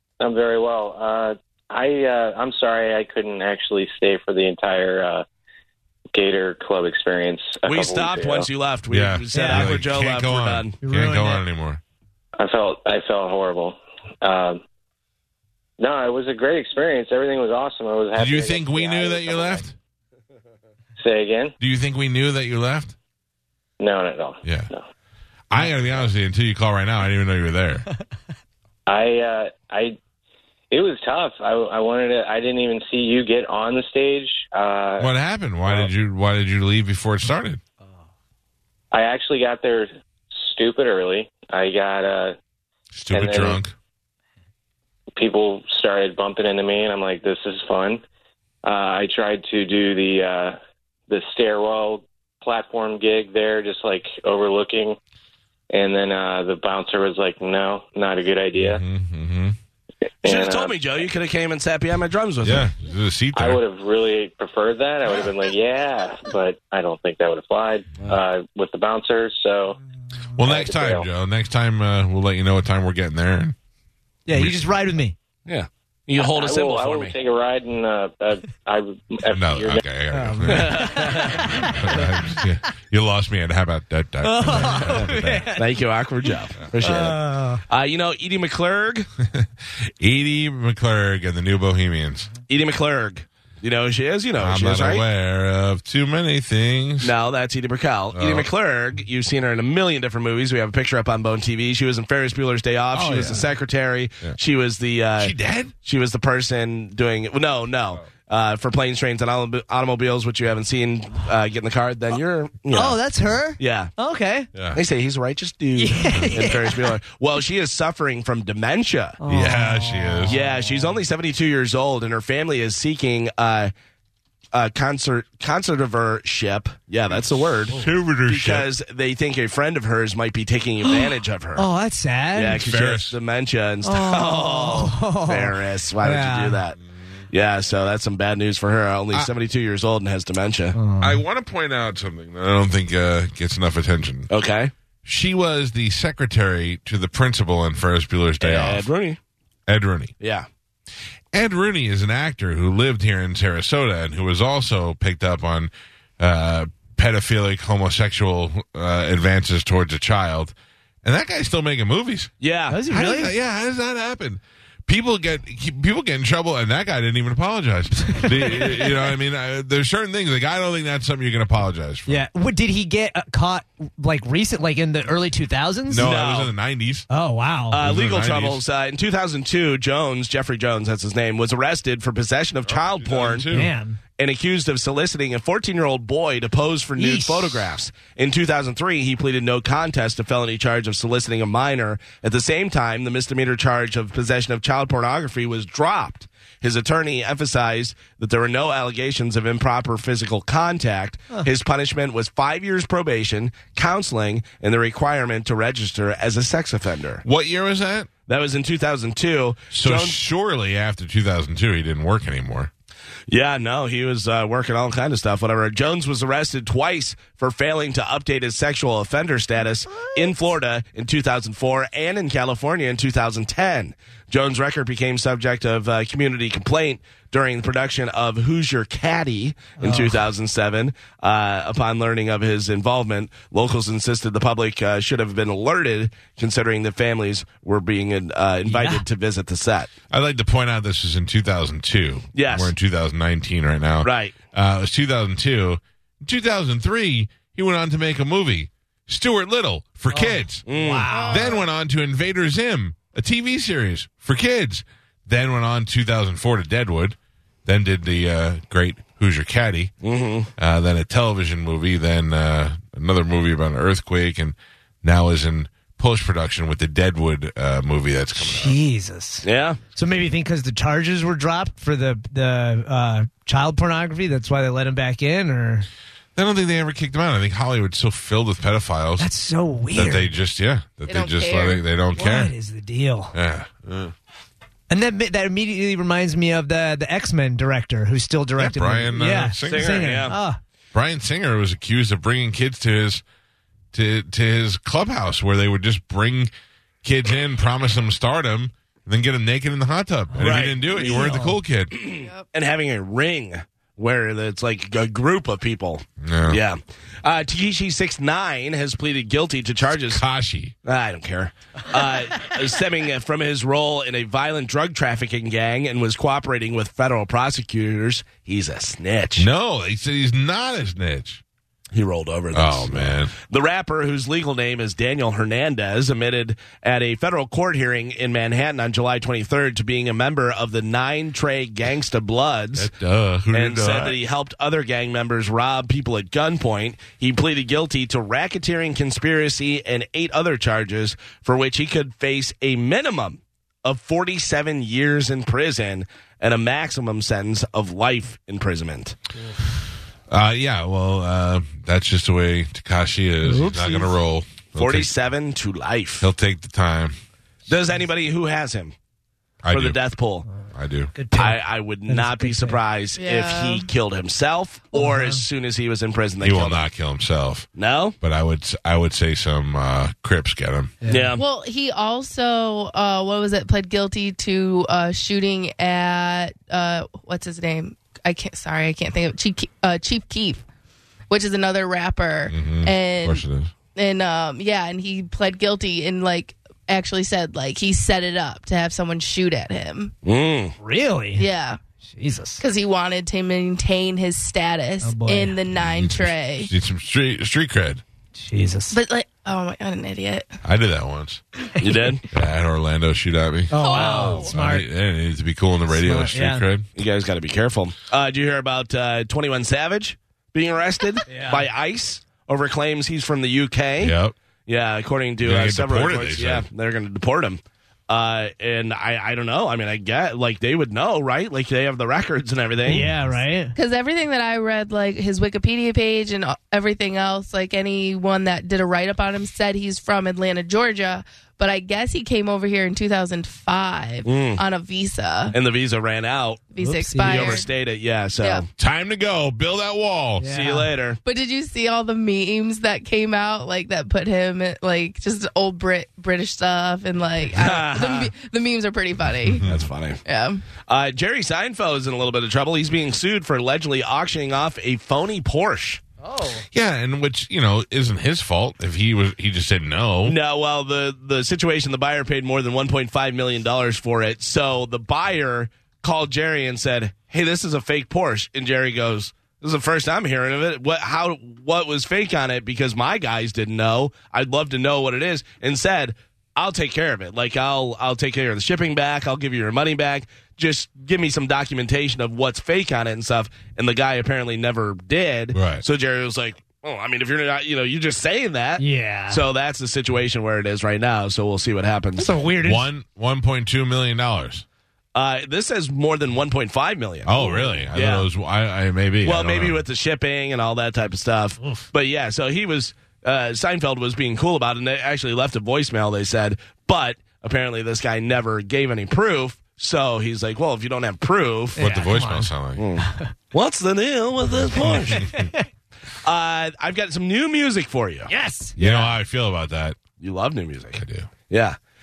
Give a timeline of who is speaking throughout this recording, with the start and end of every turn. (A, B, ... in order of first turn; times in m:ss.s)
0:00.2-0:05.2 A
0:06.1-0:08.5 A
0:07.7-0:10.8 B
0:08.9-0:11.8 C
0:09.3-0:09.8 D
0:10.8-0:11.4 D
0:12.4-0:14.6 A
0:15.8-0:19.7 A
0:18.2-0:19.7 C
0:21.0-0:21.5 A
0:21.6-0:23.0 C
0:23.8-0:24.8 A
0:24.4-0:24.7 C
0:25.5-0:27.9 C
0:28.9-0:30.0 A
0:30.7-0:35.1 A
0:35.0-0:37.6 C
0:35.6-0:35.9 A
0:38.9-0:42.4 A
0:42.9-0:43.7 C
0:43.1-0:43.6 A
0:45.2-0:48.0 A
0:48.6-0:50.6 A
0:51.1-0:55.0 A
0:55.7-0:58.8 A
0:58.6-0:59.6 C
1:00.2-1:01.1 A
1:00.2-1:02.7 B
1:02.4-1:03.6 C
1:03.3-1:09.8 A
1:10.4-1:13.6 C
1:10.4-1:11.1 A
1:14.3-1:15.2 D
1:14.3-1:14.7 C
1:15.5-1:17.2 B
1:16.2-1:19.8 A
1:19.3-1:25.5 C
1:20.1-1:22.4 D
1:20.5-1:21.6 B
1:24.2-1:27.6 D
1:25.5-1:29.1 B
1:29.2-1:32.3 C
1:32.5-1:35.0 B
1:34.4-1:37.1 C
1:37.0-1:45.3 B
1:38.1-1:38.5 C
1:42.9-1:43.5 C
1:45.2-1:45.7 C
1:45.8-1:53.0 B
1:52.7-1:54.5 D
1:53.6-1:54.0 B
1:54.7-1:59.2 B
1:55.8-1:57.0 D
1:56.1-1:56.4 C
1:59.2-2:01.0 D
1:59.3-2:00.4 C
2:00.3-2:03.7 B
2:04.5-2:11.7 B
2:07.7-2:08.7 C
2:10.8-2:12.6 D
2:12.3-2:16.8 B
2:12.5-2:13.2 C
2:13.8-2:16.6 D
2:17.3-2:20.8 B
2:20.8-2:21.2 D
2:21.0-2:24.3 C
2:24.3-2:24.7 B
2:25.0-2:28.9 C
2:28.4-2:29.2 B
2:29.7-2:30.1 C
2:30.2-2:30.5 B
2:31.3-2:42.3 C
2:42.4-2:42.8 B
2:42.7-2:43.3 D
2:42.9-2:52.2 C
2:48.2-2:48.9 D
2:52.1-2:56.1 D
2:55.9-2:57.1 C
2:56.0-2:56.5 B
2:57.1-2:57.8 D
2:57.7-3:03.5 B
2:57.8-2:58.6 C
3:02.6-3:03.7 C
3:03.5-3:04.0 D
3:04.2-3:27.2 B
3:07.0-3:07.7 D
3:27.2-3:28.1 C
3:28.3-3:30.2 B
3:29.7-3:32.7 C
3:33.3-3:59.9 B
3:49.8-3:50.2 D
3:58.7-3:59.0 D
4:00.1-4:10.7 C
4:02.4-4:02.7 B
4:04.0-4:04.4 B
4:10.1-4:11.6 D
4:10.7-4:11.2 B
4:11.1-4:11.6 E
4:11.3-4:19.9 C
4:20.0-4:20.5 B
4:20.6-4:28.8 C
4:28.4-4:35.9 D
4:29.4-4:29.8 B
4:36.4-4:39.3 C
4:39.2-4:40.3 D
4:39.9-4:42.5 C
4:41.1-4:41.8 E
4:42.2-4:43.3 D
4:43.3-4:44.1 C
4:44.9-4:50.6 D
4:48.6-4:50.2 C
4:49.6-4:50.4 B
4:50.9-4:53.2 C
4:53.9-4:56.5 C
4:57.0-5:02.0 C
5:00.4-5:01.6 D
5:00.4-5:10.2 B
5:06.2-5:06.6 C
5:10.0-5:10.7 C
5:10.8-5:19.5 B
5:19.4-5:21.4 C
5:21.9-5:32.9 B
5:22.5-5:23.3 C
5:32.8-5:34.2 C
5:33.5-5:49.2 B
5:50.3-5:55.1 C
5:53.4-5:54.1 D
5:54.8-5:56.3 B
5:56.2-5:57.2 C
5:57.7-5:59.0 B
5:59.6-6:00.0 C
5:59.7-6:00.5 B
6:00.7-6:01.2 C
6:01.1-6:02.8 D
6:01.3-6:06.8 B
6:03.2-6:03.8 E
6:04.9-6:05.4 D
6:06.4-6:07.7 C
6:07.8-6:08.2 B
6:08.2-6:10.9 C
6:11.0-6:11.4 D
6:11.1-6:11.4 B
6:11.3-6:20.6 E
6:21.3-6:23.4 E
6:22.5-6:23.7 C
6:24.0-6:30.1 E
6:30.2-6:30.8 B
6:30.8-6:31.5 D
6:31.4-6:31.8 E
6:32.0-6:32.6 D
6:32.6-6:36.7 E
6:35.0-6:35.6 D
6:35.8-6:38.0 C
6:38.4-6:39.0 D
6:38.9-6:40.5 E
6:40.6-6:41.4 C
6:41.8-6:42.2 B
6:42.3-6:46.9 C
6:43.7-6:44.9 D
6:43.8-6:44.5 E
6:45.9-6:46.7 D
6:47.0-6:54.2 B
6:51.3-6:51.6 D
6:54.0-6:54.4 C
6:54.7-7:03.1 B
6:55.4-6:56.6 C
7:02.8-7:03.7 D
7:03.7-7:15.6 E
7:14.2-7:14.6 B
7:15.5-7:18.7 B
7:16.7-7:17.7 E
7:16.8-7:17.6 D
7:18.4-7:18.6 E
7:18.8-7:20.5 C
7:20.4-7:21.0 D
7:20.4-7:21.2 B
7:21.2-7:29.7 E
7:27.5-7:28.3 B
7:29.5-7:29.9 C
7:29.7-7:30.2 B
7:30.3-7:30.6 E
7:30.8-7:36.0 B
7:36.2-7:36.6 D
7:36.7-7:40.4 C
7:40.2-8:12.4 B
8:05.5-8:05.8 C
8:08.8-8:09.4 D
8:12.2-8:12.9 D
8:12.6-8:14.6 C
8:15.2-8:18.3 B
8:17.2-8:19.8 C
8:19.2-8:31.9 B
8:31.8-8:32.5 D
8:31.8-8:32.8 C
8:32.8-8:35.3 B
8:34.8-8:35.5 C
8:35.2-8:35.6 D
8:36.2-8:39.1 B
8:38.3-8:38.8 D
8:38.8-8:40.0 C
8:40.2-8:41.8 B
8:41.0-8:41.3 C